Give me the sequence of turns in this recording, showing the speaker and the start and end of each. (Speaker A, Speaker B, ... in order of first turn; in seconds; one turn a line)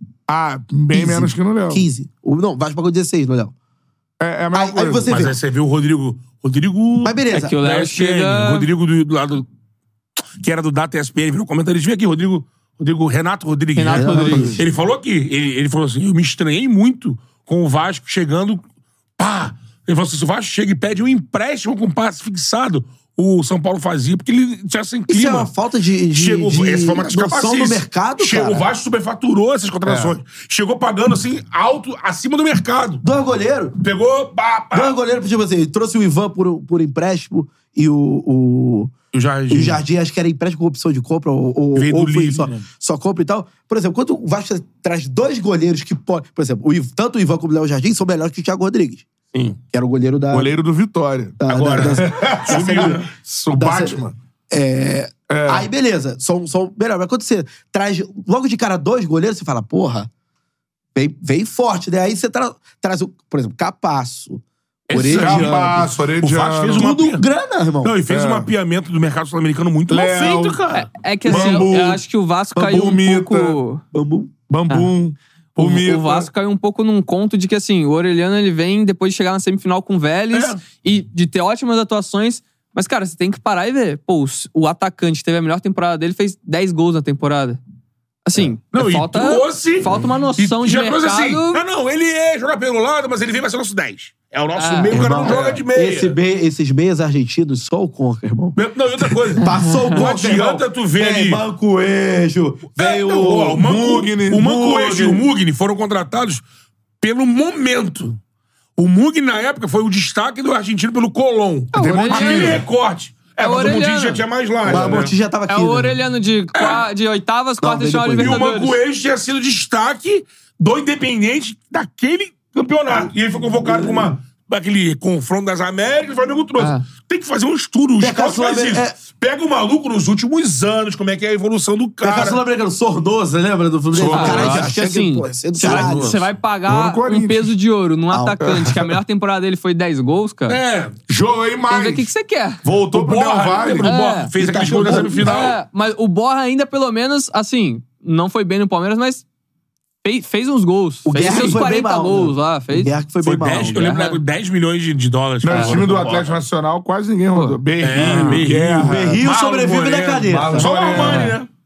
Speaker A: 0.3-1.9
Speaker B: 0.9-3.5
Speaker A: 4.2-5.1
Speaker B: 4.5-5.3
Speaker C: 5.1-9.5
Speaker B: 7.0-7.6
Speaker D: 7.3-8.7
Speaker C: 10.4-18.6
Speaker D: 13.8-14.6
Speaker B: 13.9-14.6
Speaker C: 19.2-25.5
Speaker B: 25.1-28.7
Speaker C: 26.1-33.0
Speaker A: 29.9-30.2
Speaker B: 33.0-33.8
Speaker C: 33.8-35.0
Speaker B: 34.7-38.9
Speaker C: 39.1-39.8
Speaker B: 39.5-49.1
Speaker C: 41.8-42.6
Speaker C: 49.3-49.6
Speaker B: 49.7-50.5
Speaker A: 50.3-54.2
Speaker B: 51.4-60.1
Speaker C: 51.5-53.1
Speaker A: 55.3-55.7
Speaker B: 61.0-65.9
Speaker C: 64.9-67.2
Speaker A: 65.1-66.8
Speaker B: 66.7-68.0
Speaker C: 67.8-71.7
Speaker A: 68.1-68.5
Speaker A: 69.9-70.6
Speaker D: 70.7-73.8
Speaker A: 71.2-72.0
Speaker A: 72.5-73.6
Speaker B: 73.9-74.3
Speaker A: 74.5-76.3
Speaker D: 75.6-87.6
Speaker C: 80.3-80.6
Speaker D: 88.3-91.6
Speaker C: 88.7-96.2
Speaker D: 94.6-95.3
Speaker B: 94.9-98.6
Speaker C: 98.5-101.4
Speaker B: 99.4-103.6
Speaker D: 99.5-100.0
Speaker C: 102.8-106.4
Speaker A: 103.4-105.3
Speaker C: 107.0-108.2
Speaker C: 108.8-115.1
Speaker D: 111.7-112.6
Speaker A: 111.7-112.6
Speaker D: 113.4-114.9
Speaker B: 114.7-116.0
Speaker D: 115.5-118.8
Speaker C: 116.5-116.8
Speaker B: 117.6-118.4
Speaker C: 118.2-132.4
Speaker D: 126.6-126.8
Speaker B: 128.0-129.0
Speaker B: 132.0-136.2
Speaker A: 133.9-134.7
Speaker D: 134.0-140.6
Speaker C: 134.2-134.5
Speaker C: 135.6-136.2
Speaker A: 136.7-137.5
Speaker B: 138.1-138.6
Speaker A: 138.4-138.9
Speaker C: 140.5-141.0
Speaker A: 141.1-142.1
Speaker D: 141.7-142.6
Speaker A: 142.6-143.9
Speaker C: 142.9-145.6
Speaker D: 143.8-149.2
Speaker B: 144.4-145.5
Speaker D: 150.0-152.9
Speaker B: 151.1-153.9
Speaker C: 153.2-156.4
Speaker D: 153.8-154.2
Speaker A: 155.4-159.4
Speaker D: 155.5-155.9
Speaker D: 157.3-158.5
Speaker C: 157.8-161.5
Speaker B: 158.7-161.0
Speaker A: 160.2-161.4
Speaker D: 160.9-161.4